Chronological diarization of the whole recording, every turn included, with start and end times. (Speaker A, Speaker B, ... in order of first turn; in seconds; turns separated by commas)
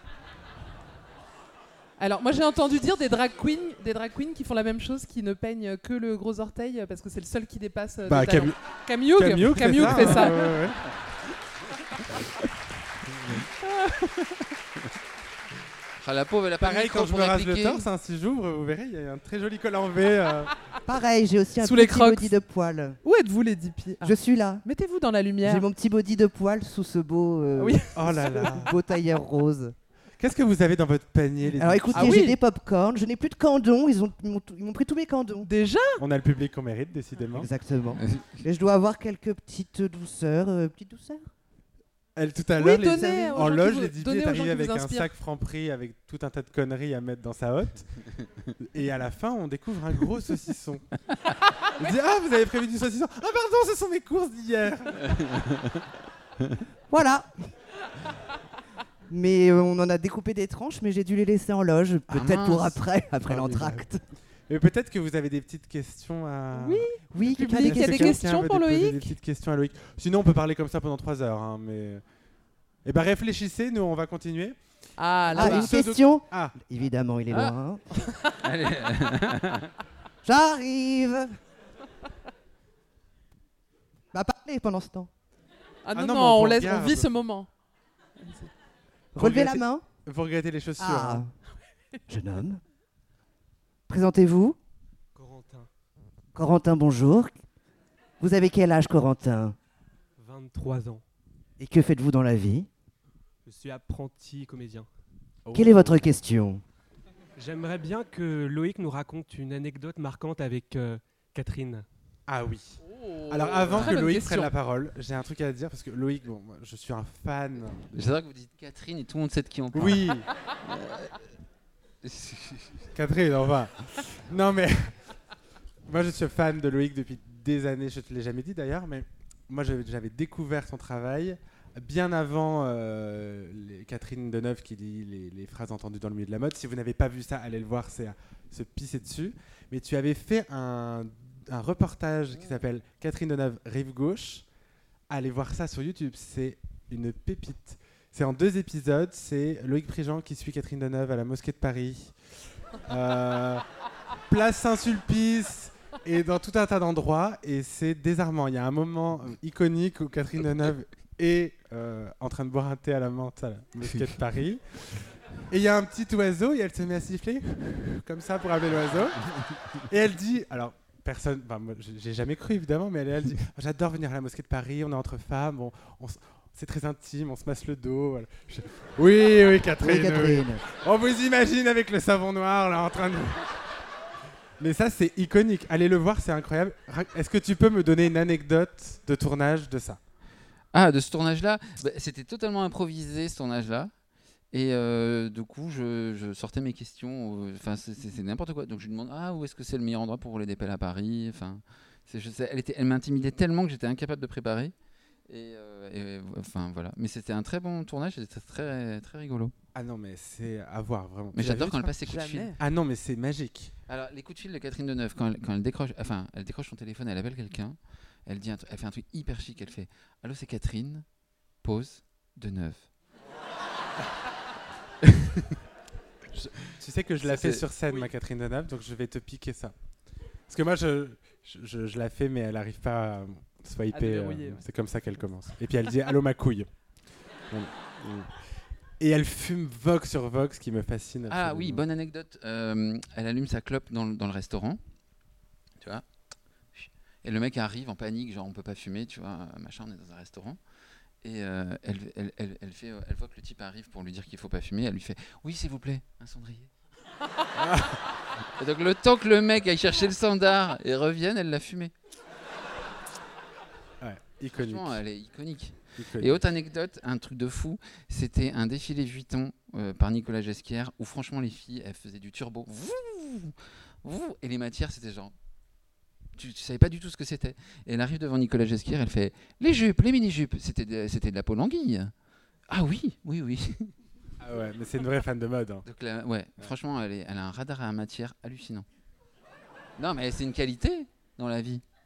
Speaker A: 2.0-10.6, Speaker B: 8.1-8.6, Speaker B: 9.1-10.8, Speaker C: 16.0-17.9, Speaker B: 16.6-20.5, Speaker D: 20.8-23.0, Speaker A: 21.6-22.3, Speaker A: 23.0-25.6, Speaker D: 24.0-24.6, Speaker D: 25.4-29.7, Speaker A: 27.6-28.6, Speaker B: 27.9-28.8, Speaker B: 30.2-32.2, Speaker D: 31.5-35.5, Speaker A: 31.9-32.4, Speaker A: 35.4-36.0, Speaker B: 36.0-37.5, Speaker D: 37.4-41.3, Speaker C: 38.0-38.4, Speaker B: 42.1-47.9, Speaker A: 42.6-45.1, Speaker D: 42.9-43.4, Speaker B: 48.6-50.8, Speaker B: 51.8-55.6, Speaker C: 55.1-55.5, Speaker D: 56.9-57.5, Speaker D: 59.1-64.0, Speaker C: 62.1-62.8, Speaker B: 63.2-63.9, Speaker B: 64.5-72.0, Speaker A: 66.5-69.1, Speaker D: 67.1-68.2, Speaker B: 72.8-74.6, Speaker A: 75.0-75.7, Speaker B: 75.3-76.6, Speaker D: 75.3-77.8, Speaker A: 78.0-78.4, Speaker C: 78.4-79.7, Speaker D: 80.2-81.3, Speaker D: 84.1-85.1, Speaker A: 85.8-87.5, Speaker B: 85.9-87.1, Speaker A: 88.2-88.5, Speaker D: 89.1-89.8, Speaker B: 89.2-91.2, Speaker D: 90.8-91.3, Speaker D: 92.1-92.6, Speaker D: 93.9-94.6, Speaker E: 95.1-95.7, Speaker D: 96.3-97.3, Speaker D: 98.2-99.6, Speaker E: 100.2-101.0, Speaker D: 101.6-102.7, Speaker E: 103.4-104.9, Speaker B: 105.4-106.0, Speaker D: 105.5-106.6, Speaker E: 107.4-111.8, Speaker B: 112.3-118.1, Speaker A: 112.8-114.5, Speaker C: 117.9-121.2, Speaker B: 119.7-120.3, Speaker C: 122.0-122.8, Speaker B: 122.9-125.0, Speaker B: 125.9-144.4, Speaker B: 145.1-152.1, Speaker B: 152.8-153.6, Speaker B: 154.3-169.3, Speaker B: 169.9-183.7, Speaker D: 179.8-180.6, Speaker B: 184.6-190.0, Speaker C: 190.7-193.9, Speaker C: 194.5-204.7, Speaker C: 205.3-209.5, Speaker B: 209.7-213.7, Speaker C: 211.3-212.5, Speaker A: 212.1-212.6, Speaker C: 213.9-221.0, Speaker C: 221.6-222.9, Speaker C: 225.2-225.4, Speaker B: 226.3-229.7, Speaker C: 227.2-227.7, Speaker B: 230.5-236.7, Speaker A: 233.9-234.6, Speaker B: 237.5-238.3, Speaker B: 239.0-241.8, Speaker C: 241.3-244.8, Speaker C: 246.7-250.6, Speaker C: 251.2-256.7, Speaker B: 257.6-258.0, Speaker C: 258.4-261.9, Speaker B: 264.0-265.0, Speaker C: 264.5-275.3, Speaker B: 266.0-266.5, Speaker C: 276.4-282.1, Speaker C: 282.7-283.9, Speaker B: 284.4-285.9, Speaker C: 285.9-288.9, Speaker C: 290.0-291.8